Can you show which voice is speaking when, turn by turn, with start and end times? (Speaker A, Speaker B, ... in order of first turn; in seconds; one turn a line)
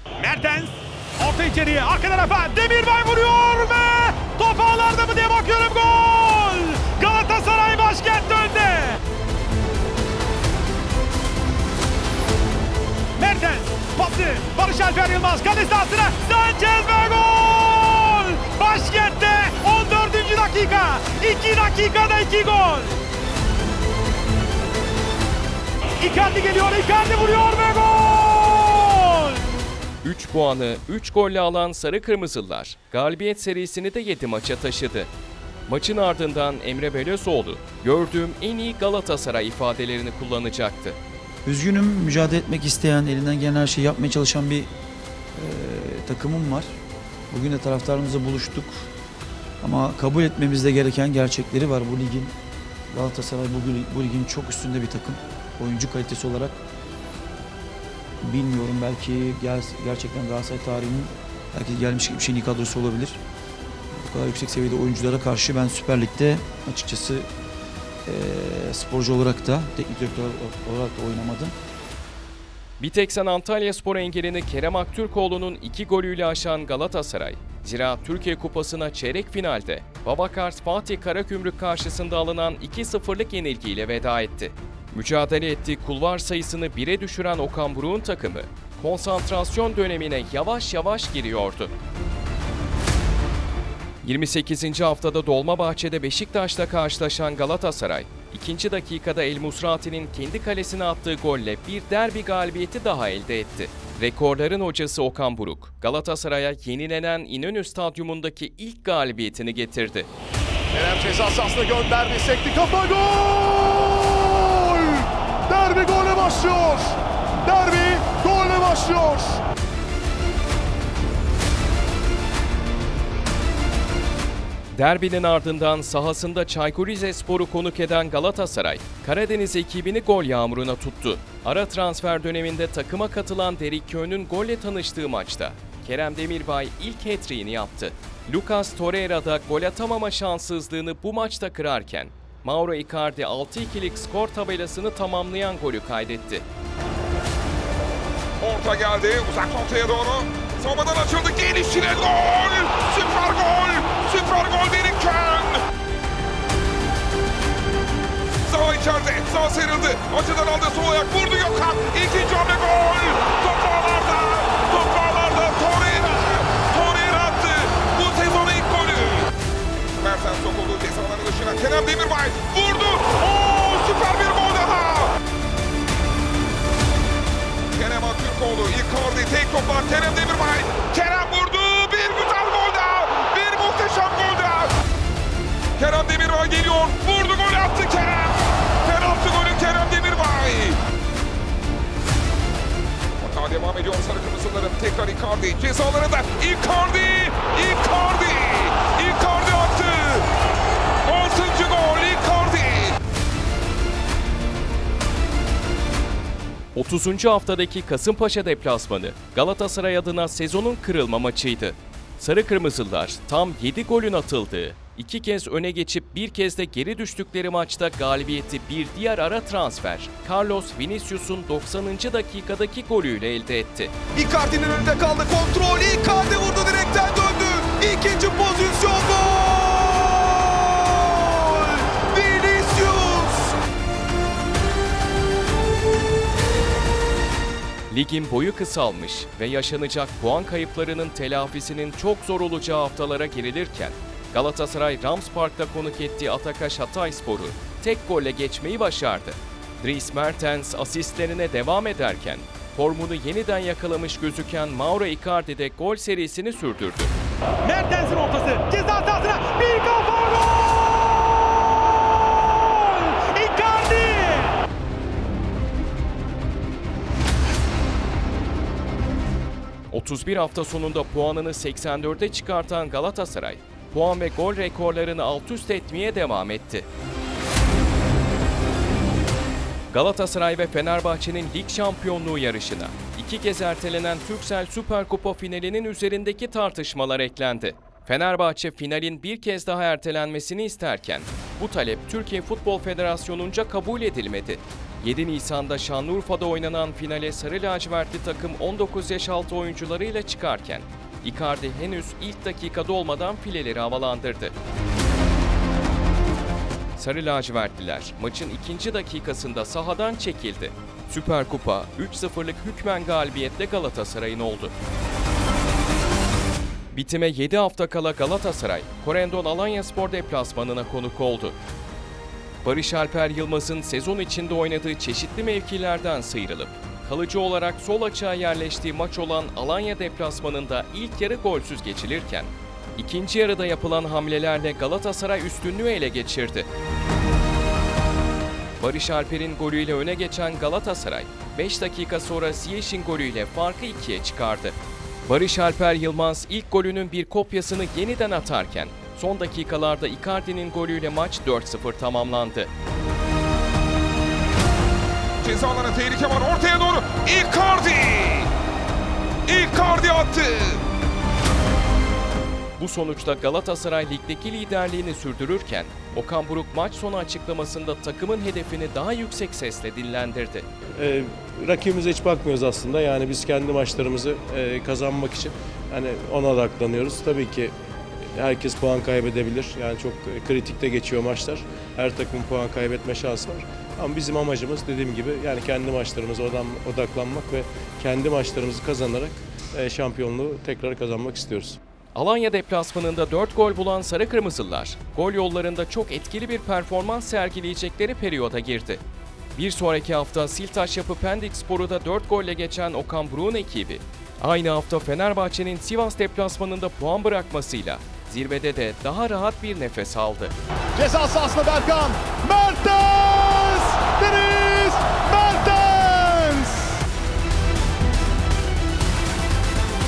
Speaker A: 0.2-9.0
Speaker A: 13.2-23.0
Speaker A: 26.0-29.4
Speaker B: 30.0-35.1
Speaker B: 35.7-41.0
Speaker C: 41.4-44.7
Speaker C: 45.4-46.7
Speaker C: 47.3-48.9
Speaker C: 49.6-52.3
Speaker C: 52.9-56.6
Speaker C: 58.2-63.2
Speaker C: 64.0-67.3
Speaker C: 68.0-71.5
Speaker B: 72.8-91.7
Speaker B: 94.0-110.1
Speaker D: 110.7-119.4
Speaker B: 124.7-146.4
Speaker E: 148.4-155.6
Speaker E: 158.4-169.3
Speaker E: 170.0-175.1
Speaker E: 177.7-184.7
Speaker E: 185.8-190.8
Speaker E: 193.2-200.2
Speaker E: 201.0-203.0
Speaker B: 206.7-223.9
Speaker F: 224.1-233.6
Speaker B: 237.9-257.1
Speaker A: 257.6-264.6
Speaker B: 269.9-276.9
Speaker B: 279.9-304.5
Speaker B: 307.0-314.7
Speaker B: 316.9-321.6
Speaker B: 322.6-336.7
Speaker B: 338.8-352.7
Speaker E: 355.4-358.5
Speaker E: 359.5-360.8
Speaker B: 362.8-370.7
Speaker G: 371.0-377.7
Speaker G: 378.4-391.8
Speaker B: 392.1-399.0
Speaker B: 399.6-410.6
Speaker D: 410.9-417.0